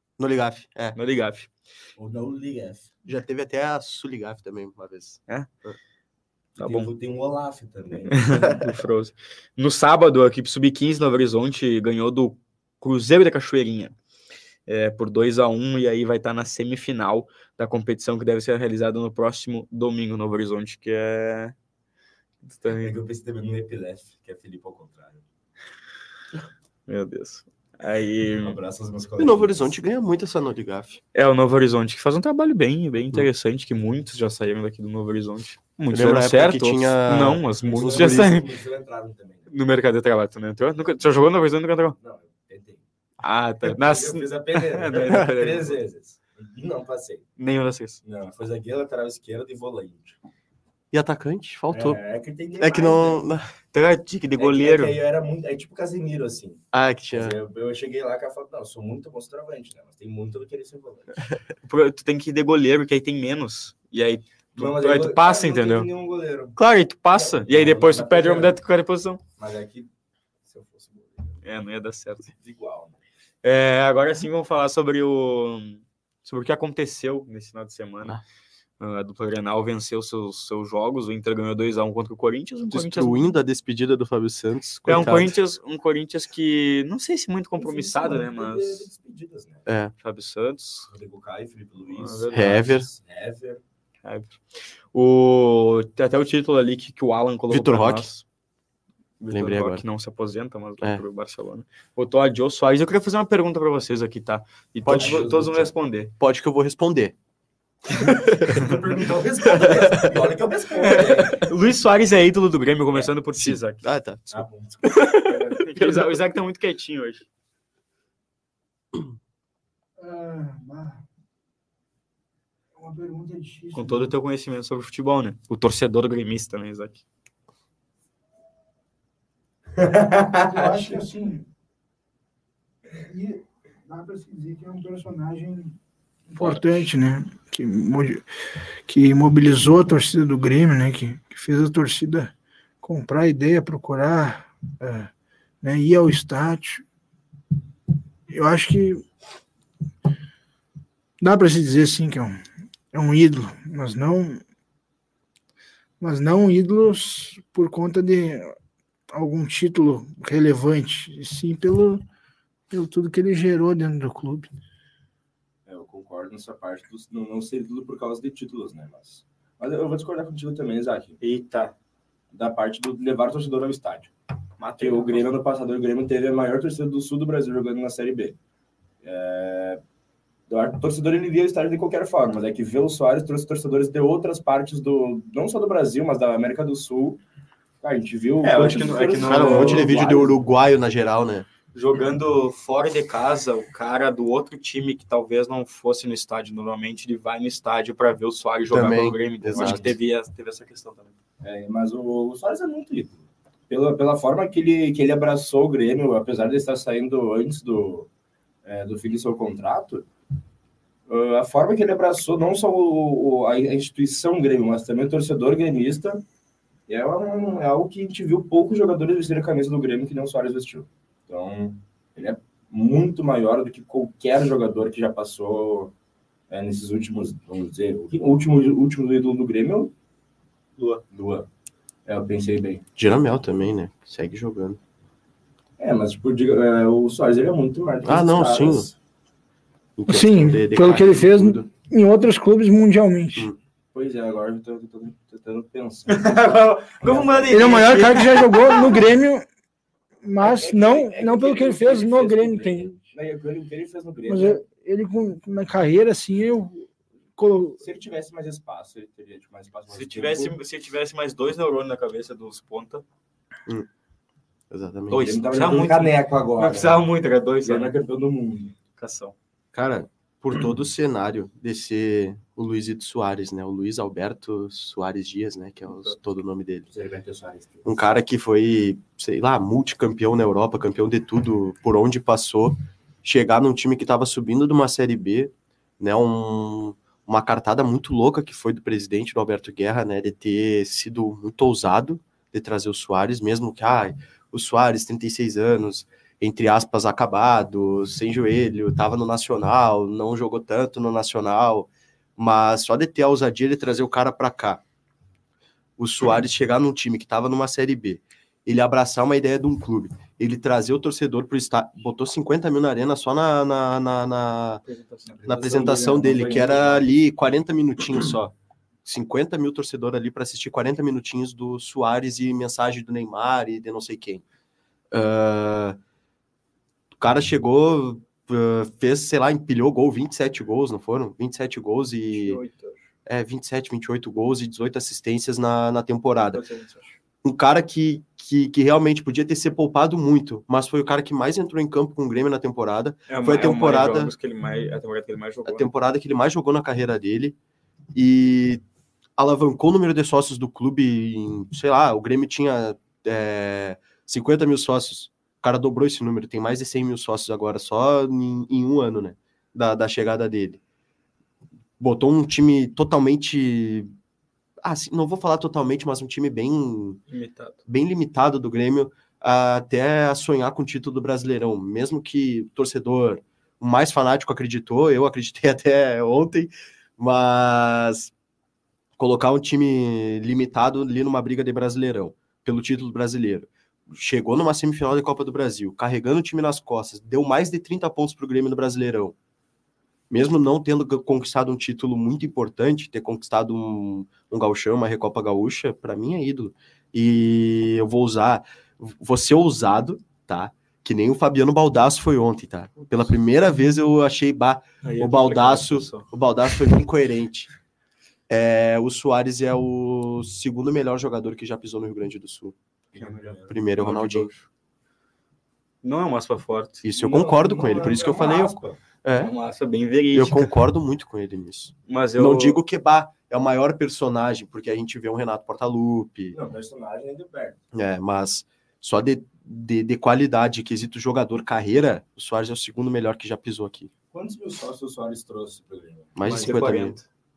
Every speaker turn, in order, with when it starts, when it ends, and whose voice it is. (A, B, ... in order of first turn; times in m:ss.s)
0:00.2-0:01.0 A
0:00.9-0:01.5 B
0:02.0-0:02.9 C
0:03.0-0:05.8 A
0:06.6-0:08.6 C
0:06.6-0:06.9 B
0:08.1-0:13.9 B
0:14.7-0:21.5 B
0:22.4-0:23.0 B
0:22.8-0:25.2 C
0:26.9-0:28.6 B
0:28.4-0:29.6 C
0:29.2-0:31.0 A
0:31.1-0:38.5 B
0:35.9-0:38.4 A
0:37.6-0:39.5 C
0:39.5-0:42.0 B
0:42.0-0:42.8 C
0:43.2-0:45.8 B
0:43.6-0:47.2 C
0:47.4-0:48.0 B
0:48.0-0:50.2 C
0:50.9-0:52.0 A
0:51.7-0:53.2 C
0:52.6-0:53.5 A
0:53.7-0:55.0 B
0:54.4-1:01.3 C
0:56.7-0:57.4 A
1:01.7-1:05.9 B
1:04.5-1:06.6 C
1:06.6-1:09.2 B
1:07.1-1:08.5 C
1:09.4-1:09.9 C
1:10.4-1:11.4 C
1:11.4-1:12.3 B
1:12.4-1:13.0 C
1:13.4-1:18.2 B
1:18.8-1:23.2 B
1:22.7-1:25.3 A
1:24.8-1:28.9 B
1:27.6-1:29.6 C
1:29.6-1:29.9 A
1:30.0-1:30.9 B
1:30.9-1:33.6 C
1:31.9-1:32.6 B
1:32.3-1:32.9 A
1:34.0-1:34.4 B
1:34.9-1:38.2 B
1:37.5-1:38.2 A
1:39.2-1:46.1 B
1:39.3-1:39.8 A
1:44.8-1:47.1 A
1:44.9-1:45.4 C
1:47.9-1:48.6 A
1:48.0-1:48.8 B
1:48.4-1:51.5 C
1:49.5-1:50.2 B
1:50.8-1:53.8 B
1:53.3-1:56.1 A
1:54.3-1:55.1 C
1:55.3-1:57.2 B
2:00.0-2:01.0 D
2:02.8-2:04.1 D
2:03.7-2:07.0 B
2:09.8-2:11.0 C
2:10.4-2:11.4 D
2:13.0-2:15.8 D
2:16.3-2:18.2 D
2:18.9-2:26.8 D
2:28.3-2:29.0 D
2:31.2-2:32.4 D
2:32.9-2:34.4 D
2:36.0-2:38.5 D
2:39.1-2:42.0 D
2:42.7-2:44.5 D
2:45.7-2:51.2 C
2:51.2-2:51.7 B
2:52.3-2:54.1 C
2:54.6-2:55.3 B
2:54.7-2:58.4 C
2:59.0-2:59.8 C
3:00.5-3:07.2 C
3:07.8-3:10.5 C
3:08.4-3:10.0 B
3:09.2-3:11.5 A
3:11.7-3:21.1 B
3:18.7-3:19.9 A
3:19.6-3:19.9 C
3:21.4-3:28.1 C
3:28.6-3:30.1 C
3:31.1-3:36.2 C
3:36.9-3:45.9 C
3:46.5-3:49.9 C
3:51.1-3:51.5 C
3:52.0-3:52.8 C
3:53.0-3:54.8 A
3:55.8-3:58.9 C
3:58.0-3:58.9 A
4:00.0-4:01.7 A
4:00.1-4:03.5 D
4:03.9-4:08.0 C
4:06.1-4:09.0 B
4:07.5-4:09.4 D
4:10.2-4:13.0 D
4:10.4-4:14.6 C
4:14.3-4:17.8 D
4:17.8-4:20.6 C
4:19.9-4:23.0 B
4:24.7-4:25.4 A
4:25.1-4:27.0 C
4:25.1-4:27.9 B
4:27.6-4:28.7 C
4:29.0-4:29.3 B
4:29.7-4:36.9 A
4:36.9-4:37.8 C
4:37.8-5:04.8 A
5:06.0-5:14.8 A
5:14.8-5:15.4 B
5:15.3-5:17.1 C
5:15.4-5:18.5 A
5:19.0-5:24.4 A
5:25.1-5:26.0 A
5:27.2-5:32.6 A
5:32.3-5:33.0 B
5:33.2-5:36.6 A
5:36.5-5:37.2 B
5:37.4-5:44.3 A
5:43.3-5:45.9 B
5:45.6-5:47.6 A
5:48.1-5:48.8 A
5:49.4-6:00.8 A
6:02.0-6:04.1 A
6:04.8-6:07.2 A
6:07.3-6:07.8 B
6:07.9-6:18.3 A
6:19.2-6:29.3 A
6:30.3-6:47.7 A
6:45.0-6:46.3 B
6:48.5-6:52.8 A
6:53.1-6:53.7 C
6:53.7-6:54.5 A
6:54.0-6:54.6 B
6:56.0-6:57.0 B
6:57.0-6:59.5 A
6:57.2-6:59.0 C
6:59.3-7:00.7 B
7:00.3-7:06.6 A
7:02.1-7:02.8 B
7:06.5-7:07.8 C
7:07.9-7:14.1 A
7:14.3-7:16.9 C
7:16.4-7:17.2 A
7:16.4-7:17.2 B